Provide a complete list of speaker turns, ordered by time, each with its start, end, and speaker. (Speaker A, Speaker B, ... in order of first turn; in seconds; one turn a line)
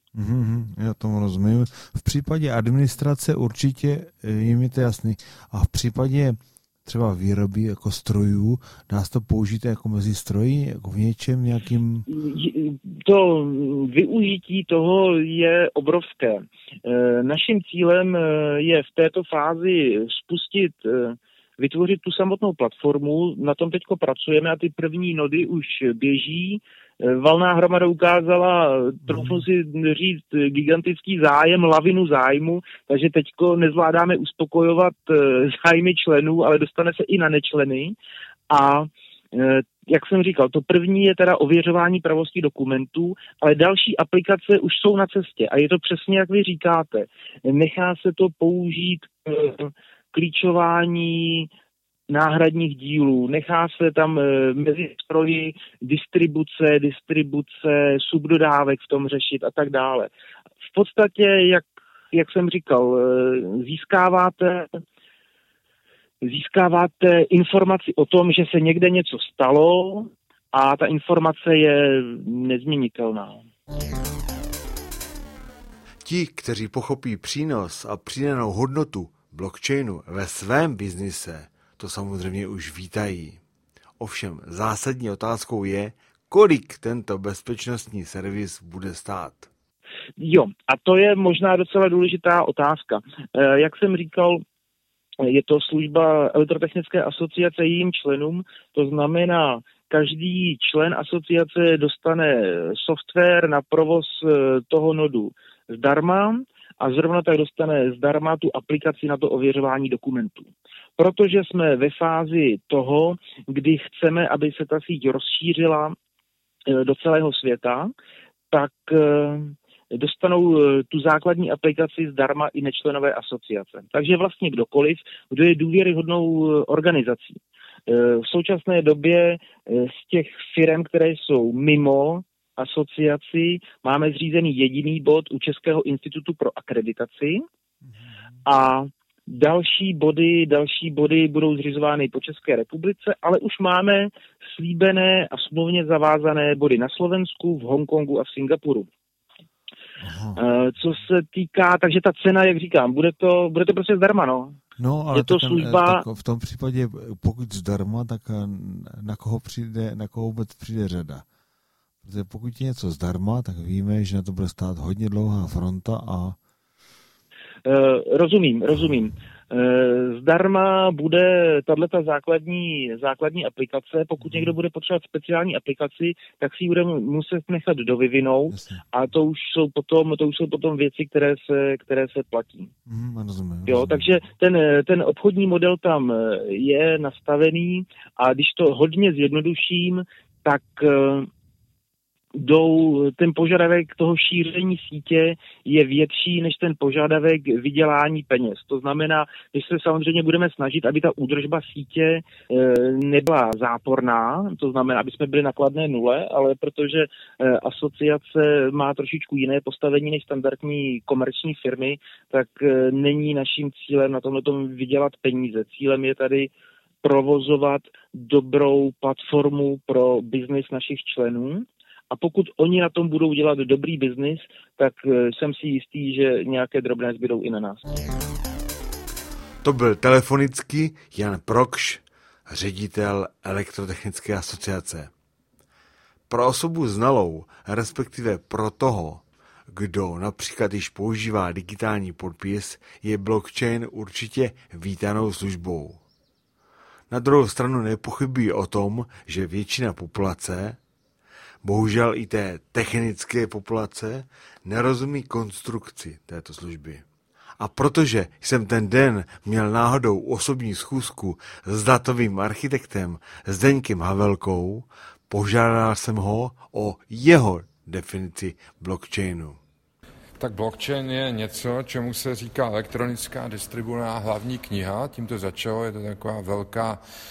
Speaker A: 0.1-12.1
Speaker B: 12.1-38.0
Speaker A: 29.1-29.4
Speaker B: 38.5-51.5
Speaker B: 52.1-60.1
Speaker B: 60.7-64.7
Speaker B: 66.2-73.5
Speaker A: 76.0-83.4
Speaker A: 84.0-89.5
Speaker B: 90.2-94.4
Speaker B: 95.2-116.0
Speaker B: 116.7-117.9
Speaker B: 118.5-137.4
Speaker A: 137.9-138.3
Speaker B: 138.4-148.9
Speaker A: 150.0-150.4
Speaker B: 150.4-154.6
Speaker A: 154.8-161.2
Speaker B: 155.1-156.0
Speaker A: 162.0-166.4
Speaker B: 167.6-182.7
Speaker A: 174.2-174.5
Speaker A: 178.5-178.8
Speaker A: 182.9-184.1
Speaker B: 183.7-191.3
Speaker B: 192.3-216.5
Speaker B: 217.0-227.8
Speaker A: 229.6-235.1
Speaker A: 236.3-246.0
Speaker A: 247.1-250.8
Speaker A: 251.6-257.0
Speaker A: 257.6-269.6
Speaker C: 270.4-277.0